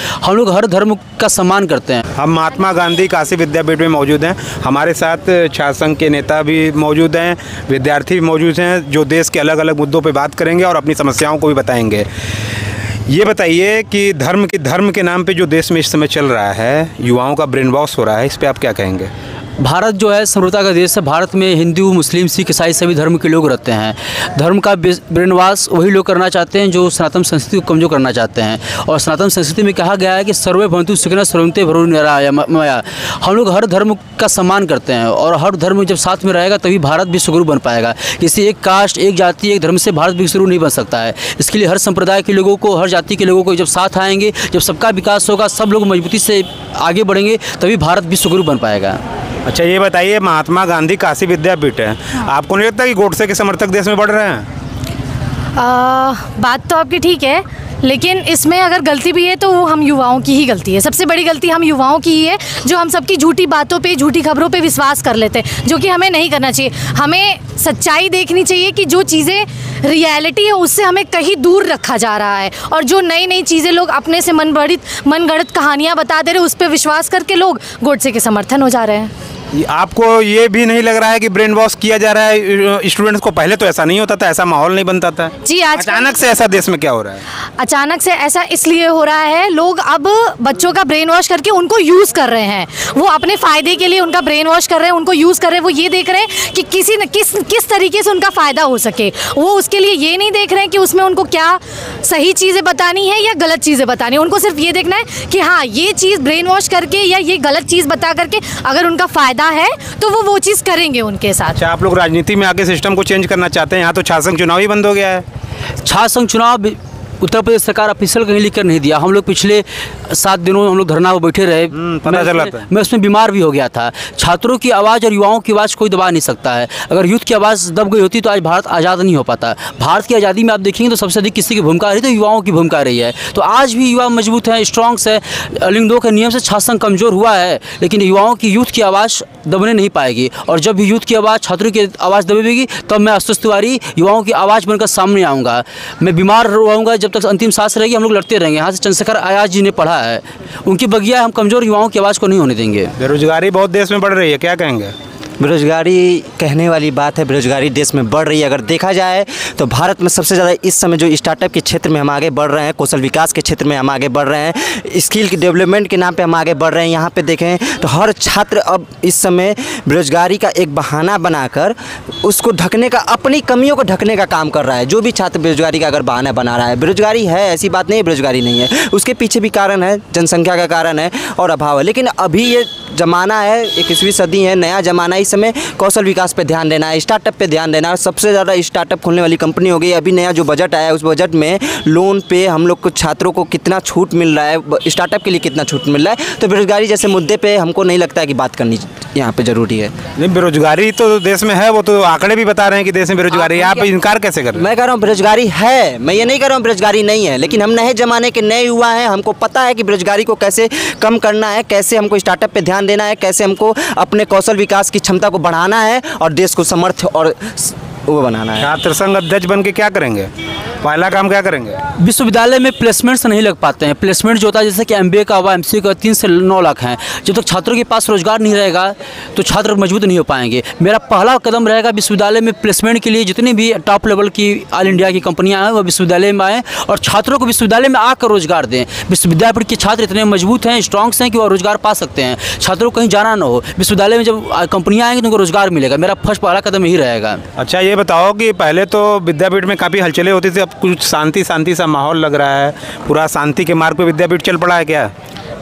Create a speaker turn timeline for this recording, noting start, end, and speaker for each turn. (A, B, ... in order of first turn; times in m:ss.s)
0:00.2-0:02.0 A
0:02.2-0:12.1 B
0:13.1-0:19.1 B
0:19.6-0:49.0 A
0:49.4-0:54.5 B
0:55.6-1:19.1 C
1:19.5-1:27.2 B
1:25.4-1:26.1 C
1:27.6-1:51.6 C
1:51.6-1:55.2 B
1:55.8-2:32.9 A
2:01.7-2:02.6 B
2:33.0-2:34.9 B
2:35.4-3:19.9 D
3:20.2-3:24.6 B
3:23.5-3:23.8 D
3:24.6-3:38.7 D
3:38.6-3:40.3 B
3:40.8-3:41.8 B
3:42.0-4:07.4 A
4:07.6-4:15.1 B